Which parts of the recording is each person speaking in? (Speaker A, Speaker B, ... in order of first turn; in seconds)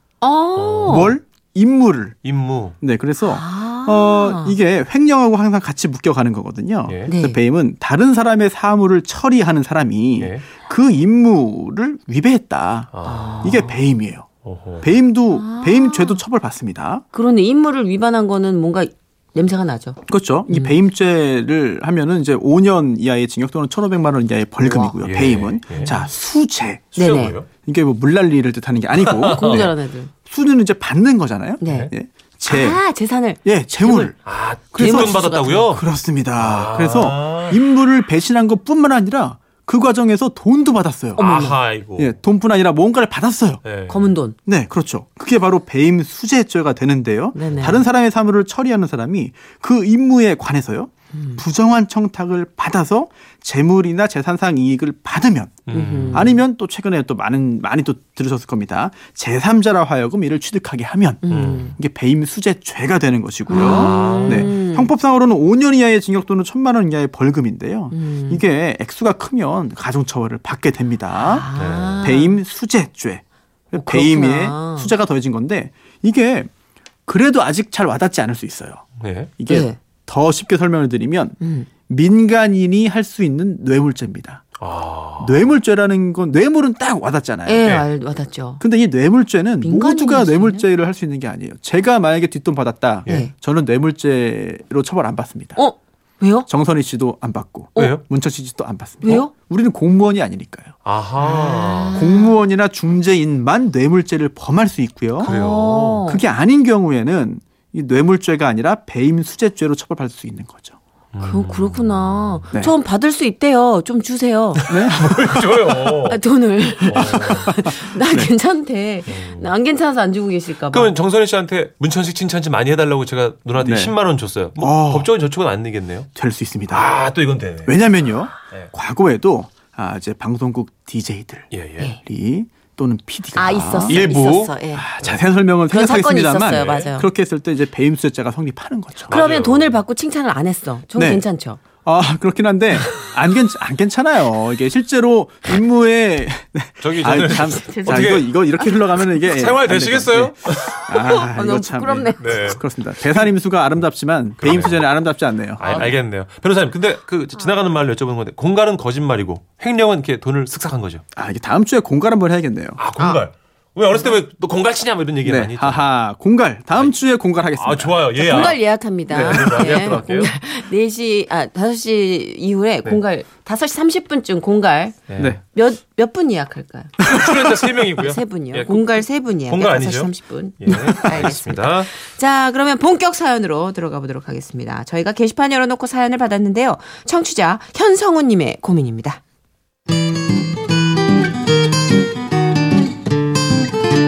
Speaker A: 0.2-1.1, 3.2-4.6, 7.1-7.4, 13.1-13.8, 15.3-16.2, 17.1-20.0, 20.5-20.8, 24.6-24.9, 25.8-26.1, 26.9-27.4, 29.3-30.1, 31.6-31.9, 32.5-34.1, 34.8-35.7, 41.1-41.6, 43.9-44.4, 47.3-47.8, 51.1-51.4, 55.7-56.4, 61.2-61.8, 63.5-64.9, 67.9-68.4, 71.1-72.4, 73.7-74.9, 79.5-79.8, 81.4-81.7, 87.5-88.6, 89.6-90.7, 93.0-93.3, 95.5-96.5, 99.0-99.3, 101.2-102.4, 105.2-106.2, 111.2-114.7, 116.0-120.9, 133.3-134.8, 135.7-137.1, 139.1-141.6, 147.3-148.7, 151.1-152.5, 155.6-155.9, 168.2-175.0, 175.5-177.1, 178.0-189.2
Speaker B: 0.6-1.1, 2.2-2.8, 10.2-10.4, 12.9-13.5, 14.4-14.9, 24.9-25.9, 26.9-27.5, 28.9-29.7, 34.2-35.8, 36.4-37.6, 41.2-42.2, 43.6-44.1, 55.6-56.3, 61.3-61.8, 63.5-64.5, 71.5-72.1, 79.0-79.3, 84.6-85.5, 97.8-98.0, 100.8-102.0, 105.2-106.0, 111.1-112.4, 114.7-116.2, 116.8-117.5, 119.1-119.5, 120.7-126.1, 126.7-127.8, 131.5-131.9, 133.9-135.2, 136.5-136.9, 139.1-139.8, 146.8-148.3, 149.1-151.0, 152.2-152.6, 154.4-154.9, 155.6-161.0, 162.8-165.9, 167.5-170.3, 175.1-175.4, 177.0-181.9
Speaker C: 0.9-2.1, 2.8-14.3, 14.8-17.0, 20.0-26.9, 27.6-29.7, 30.2-32.8, 33.4-34.1, 34.7-41.3, 42.0-43.6, 44.5-71.5, 72.0-76.5, 77.0-78.8, 79.4-84.4, 85.2-87.7, 88.6-95.6, 96.5-100.8, 101.5-105.3, 106.0-110.8, 114.7-116.0, 116.9-118.3, 123.6-124.0, 124.6-125.1, 126.1-126.9, 127.7-134.1, 134.7-139.2, 140.9-141.2, 141.8-155.9, 161.1-162.8, 165.2-168.6, 169.1-170.0, 177.0-177.6, 180.7-181.0